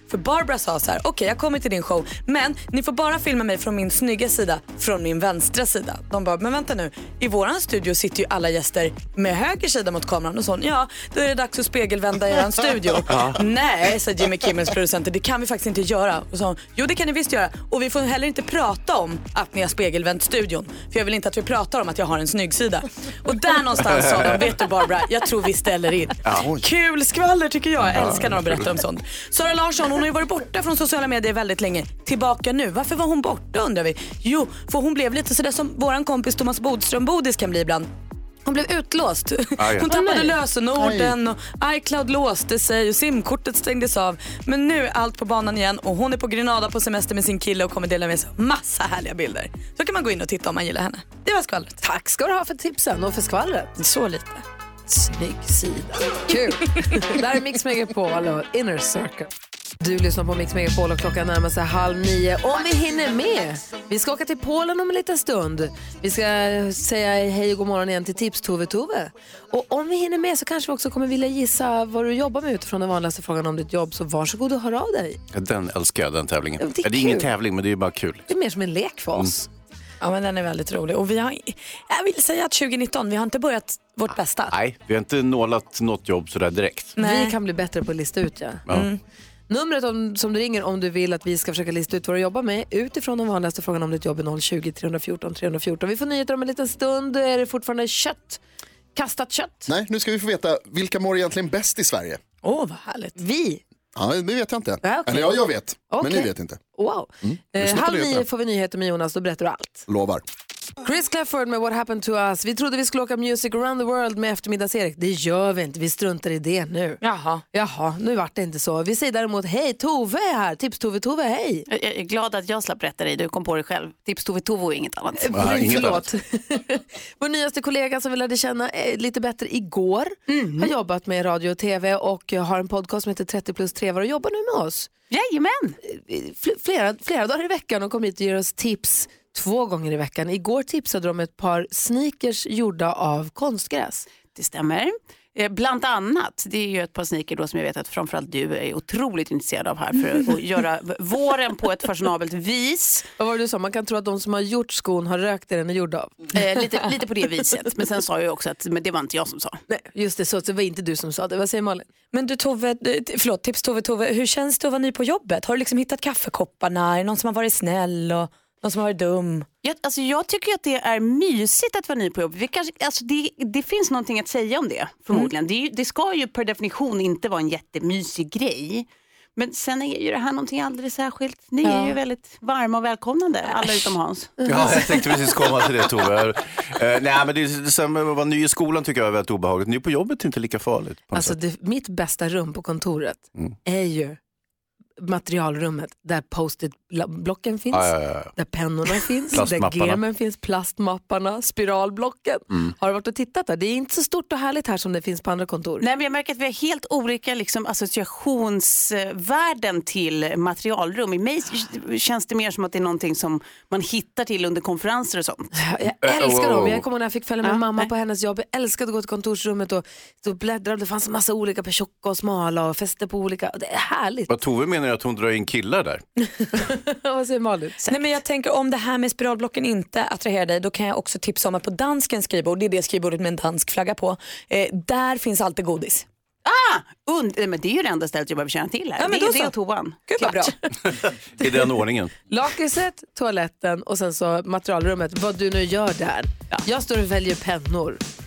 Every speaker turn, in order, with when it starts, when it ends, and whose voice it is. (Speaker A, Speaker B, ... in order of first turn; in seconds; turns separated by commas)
Speaker A: 0.1-37.9, Speaker B: 13.1-13.4, Speaker B: 23.9-24.4, Speaker B: 26.2-26.6, Speaker B: 27.8-28.7, Speaker A: 38.5-51.8, Speaker B: 39.6-39.9, Speaker C: 39.9-41.1, Speaker C: 51.8-53.7, Speaker A: 53.8-54.4, Speaker C: 54.9-59.3, Speaker C: 59.8-75.2, Speaker B: 75.3-78.3, Speaker C: 76.6-77.3, Speaker C: 78.3-79.5, Speaker A: 80.0-84.5, Speaker B: 84.5-87.0, Speaker A: 87.0-87.4, Speaker C: 87.0-88.6, Speaker A: 88.7-89.0, Speaker C: 89.5-98.4, Speaker C: 99.0-99.7, Speaker D: 99.7-102.2, Speaker A: 102.4-103.2, Speaker C: 103.2-103.6, Speaker D: 104.0-106.6, Speaker C: 104.8-109.8, Speaker D: 107.2-108.2, Speaker D: 109.9-110.2, Speaker C: 110.8-117.0, Speaker A: 117.0-117.4, Speaker C: 117.5-121.7, Speaker E: 121.7-125.7, Speaker C: 125.2-134.9, Speaker B: 125.3-126.1, Speaker E: 130.3-130.7, Speaker E: 135.1-135.8, Speaker C: 135.8-144.1, Speaker E: 144.2-153.1, Speaker C: 153.2-156.8, Speaker E: 156.3-159.6, Speaker C: 159.7-161.9, Speaker A: 162.1-169.5, Speaker E: 169.6-184.3, Speaker A: 181.6-182.0, Speaker C: 184.4-185.0, Speaker B: 184.4-191.4, Speaker C: 191.1-194.2, Speaker C: 195.0-205.8, Speaker B: 197.7-198.3, Speaker B: 199.3-200.0, Speaker E: 205.8-215.5, Speaker C: 215.5-224.3, Speaker B: 216.0-216.8, Speaker E: 217.4-217.8, Speaker B: 224.3-226.0, Speaker C: 226.6-228.0, Speaker A: 227.9-236.1, Speaker E: 236.4-240.4, Speaker A: 239.0-240.5, Speaker B: 240.9-242.1, Speaker C: 241.4-248.0